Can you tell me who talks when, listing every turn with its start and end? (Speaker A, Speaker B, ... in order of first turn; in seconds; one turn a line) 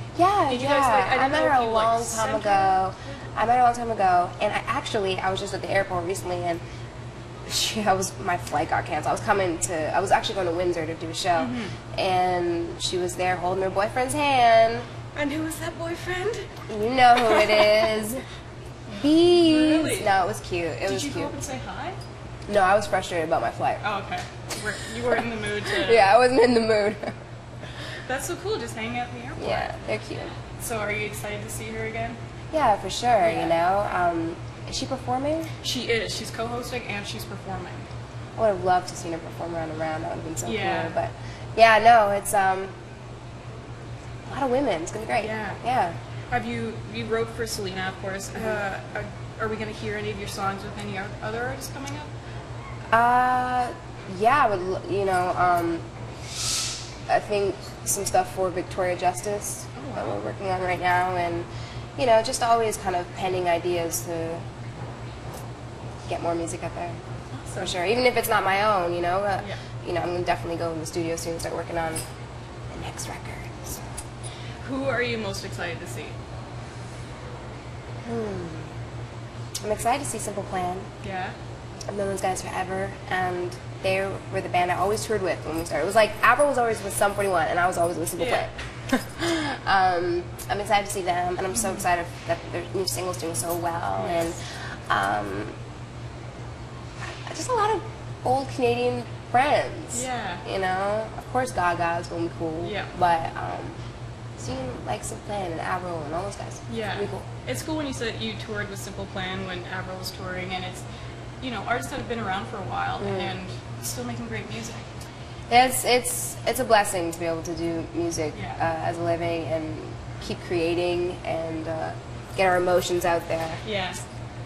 Speaker A: 0.1-6.6
Speaker B: 0.5-3.2
Speaker A: 7.5-14.8
Speaker B: 11.3-11.7
Speaker B: 15.1-16.5
Speaker A: 16.7-18.2
Speaker B: 17.1-17.8
Speaker A: 18.9-21.3
Speaker B: 19.2-20.1
Speaker B: 20.8-22.0
Speaker A: 22.5-23.8
Speaker B: 23.8-26.1
Speaker A: 25.7-27.1
Speaker B: 28.1-29.8
Speaker A: 29.4-30.3
Speaker B: 30.6-32.2
Speaker A: 32.5-35.5
Speaker B: 33.2-33.5
Speaker B: 35.6-37.9
Speaker A: 38.4-42.7
Speaker B: 40.4-41.0
Speaker A: 44.3-46.0
Speaker B: 45.2-45.6
Speaker B: 46.3-52.1
Speaker A: 48.3-48.6
Speaker A: 52.9-55.8
Speaker A: 57.1-61.5
Speaker B: 59.7-60.2
Speaker A: 62.0-64.4
Speaker A: 66.1-67.0
Speaker B: 67.3-67.7
Speaker A: 67.6-72.0
Speaker A: 72.7-73.8
Speaker B: 74.6-76.1
Speaker A: 78.0-78.7
Speaker A: 79.6-80.9
Speaker B: 81.0-81.3
Speaker A: 81.9-95.5
Speaker B: 88.2-88.5
Speaker B: 91.5-91.8
Speaker B: 94.0-94.3
Speaker A: 97.2-103.8
Speaker B: 99.9-100.4
Speaker B: 102.6-102.9
Speaker A: 104.4-107.2
Speaker B: 106.7-110.8
Speaker B: 111.4-114.8
Speaker A: 113.0-113.3
Speaker A: 115.5-123.6
Speaker B: 118.3-118.6
Speaker B: 123.6-124.0